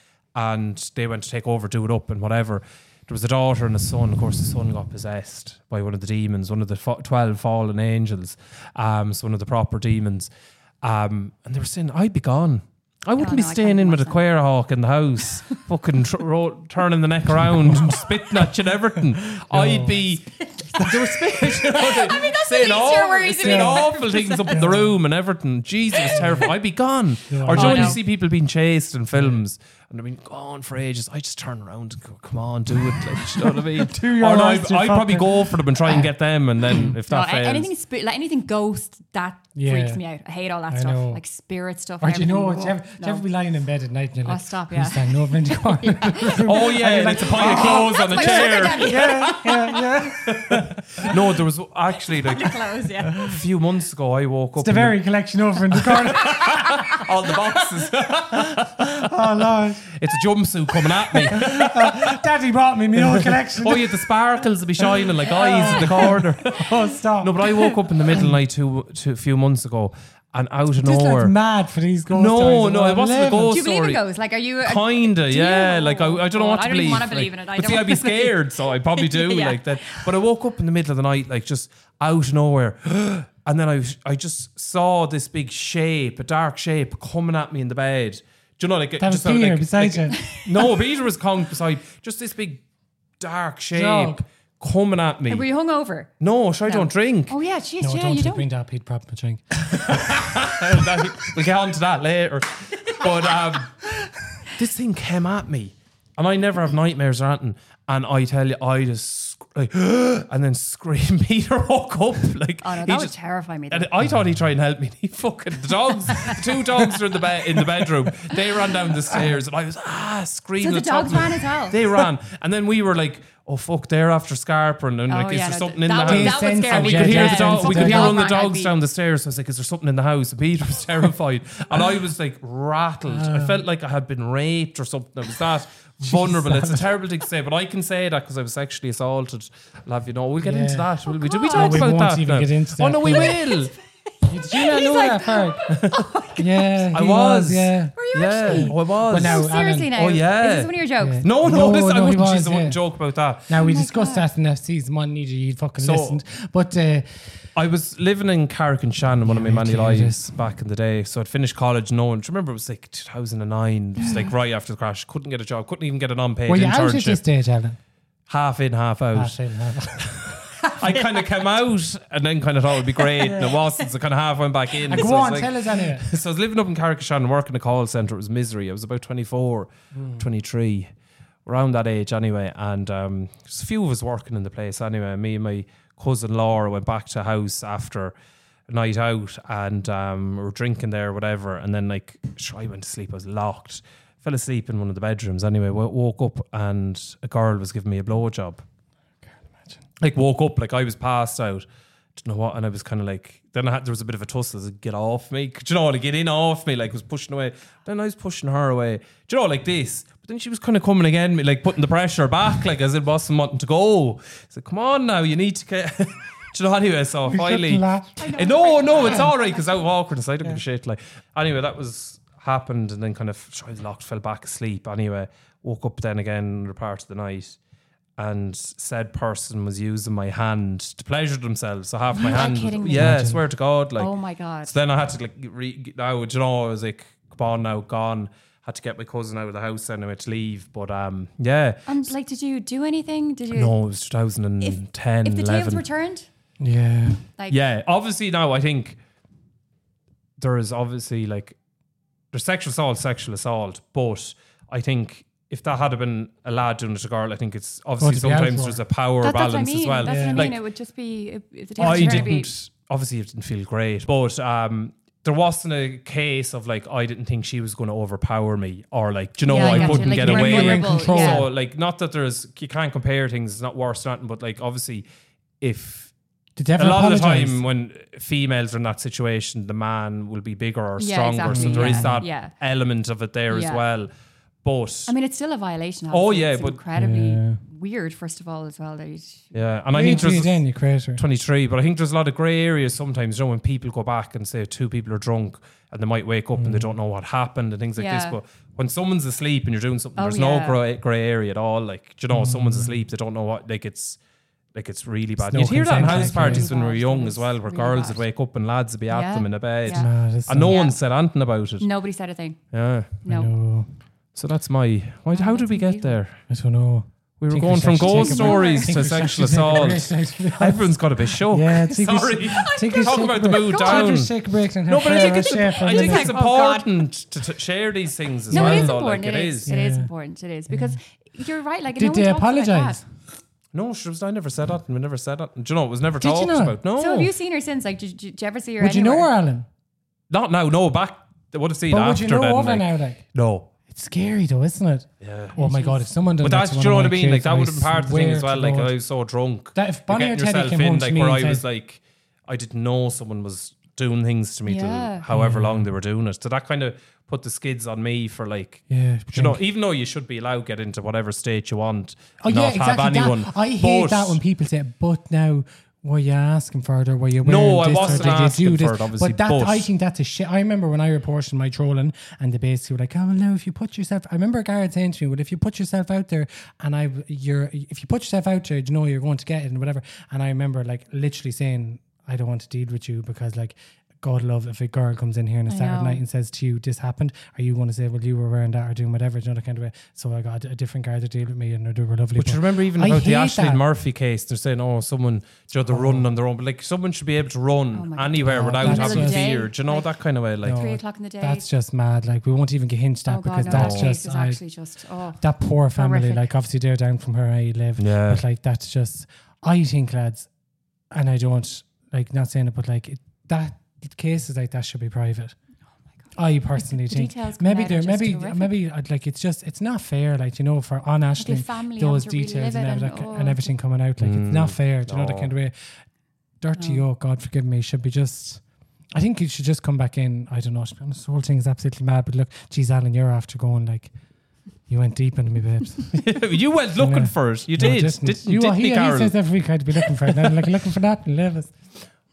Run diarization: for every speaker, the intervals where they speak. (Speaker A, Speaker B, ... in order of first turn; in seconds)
Speaker A: 0.3-10.3, 10.8-37.7, 46.5-49.5, 50.1-55.0, 55.7-59.1, 59.9-62.2, 63.0-66.7, 67.2-71.3, 72.1-74.0, 74.7-92.6, 93.2-95.5, 96.2-97.3, 99.9-103.8, 104.5-113.1, 113.7-143.7, 145.7-146.0, 146.9-153.6, 155.8-156.2, 157.6-167.2, 168.3-169.4, 170.0-180.9, 181.5-188.1, 188.7-198.6, 200.0-201.7, 202.2-227.6, 228.2-234.1, 234.6-242.0, 243.5-245.8, 247.5-249.0, 250.4-251.6, 252.3-260.6, 261.8-275.1, 275.6-276.1, 276.8-284.1, 284.6-285.1, 286.1-286.8, 289.5-290.6, 291.2-304.2, 304.7-311.9, 312.7-313.2, 314.3-316.4, 317.4-329.7, 333.7-337.3, 340.3-343.7, 345.2-345.6, 346.4-364.4, 367.4-369.9, 392.4-400.8, 403.7-404.1, 408.0-408.4, 424.2-425.5, 436.1-439.4
Speaker B: 13.2-14.2, 20.4-20.8, 21.7-24.6, 27.6-28.0, 37.1-43.2, 44.2-49.8, 52.0-53.2, 73.5-80.1, 95.3-96.1, 96.7-98.5, 112.6-113.9, 120.6-121.8, 125.1-128.7, 141.1-141.9, 143.1-143.7, 144.2-146.9, 147.9-151.2, 153.6-154.3, 164.0-164.3, 218.2-219.9, 232.2-233.2, 234.0-234.7, 241.9-243.7, 244.6-246.3, 259.2-262.5, 269.5-271.5, 281.0-282.5, 283.5-283.8, 285.1-289.6, 298.0-298.4, 300.2-300.8, 305.9-308.2, 309.1-310.1, 310.7-311.0, 311.8-312.6, 313.2-313.5, 315.3-316.2, 318.0-319.0, 322.6-324.2, 325.0-326.9, 328.5-333.0, 337.0-339.3, 345.6-346.1, 354.7-355.2, 368.0-368.3, 385.7-386.2, 397.9-400.1, 400.7-401.6, 403.3-405.4, 405.9-406.5, 416.8-418.8, 421.4-423.7, 426.8-427.0
Speaker C: 17.4-20.1, 20.8-21.9, 23.4-25.0, 26.1-26.5, 27.3-28.0, 29.1-29.4, 32.9-36.0, 36.7-37.0, 39.5-40.0, 40.7-41.2, 42.0-51.2, 53.1-53.4, 54.6-59.9, 61.1-64.1, 64.8-68.4, 70.8-73.6, 89.0-90.2, 93.7-94.2, 97.8-101.3, 117.6-117.9, 126.0-128.3, 133.1-133.6, 136.0-136.9, 140.4-143.4, 144.3-145.8, 146.4-149.9, 151.0-152.8, 153.5-157.1, 159.2-160.3, 166.5-167.8, 169.1-170.4, 173.2-173.5, 174.9-176.1, 179.9-180.3, 199.2-199.8, 217.3-218.3, 219.0-219.3, 232.9-233.4, 246.6-247.2, 258.0-258.8, 260.0-260.6, 261.8-262.4, 269.5-271.5, 276.6-277.6, 281.5-282.2, 286.9-287.6, 289.9-291.2, 296.6-297.0, 302.3-303.0, 305.4-306.7, 309.9-310.9, 313.3-313.9, 316.5-326.4, 328.5-328.9, 329.6-330.1, 330.7-331.0, 332.0-333.1, 336.2-336.8, 338.8-339.7, 341.9-343.2, 343.9-348.9, 349.8-351.6, 355.3-355.9, 358.9-359.6, 362.4-393.8, 395.9-396.3, 398.4-399.5, 400.6-404.6, 405.4-410.5, 411.1-415.6, 416.3-425.9, 426.6-428.6, 429.1-434.1, 434.9-436.2, 436.9-441.8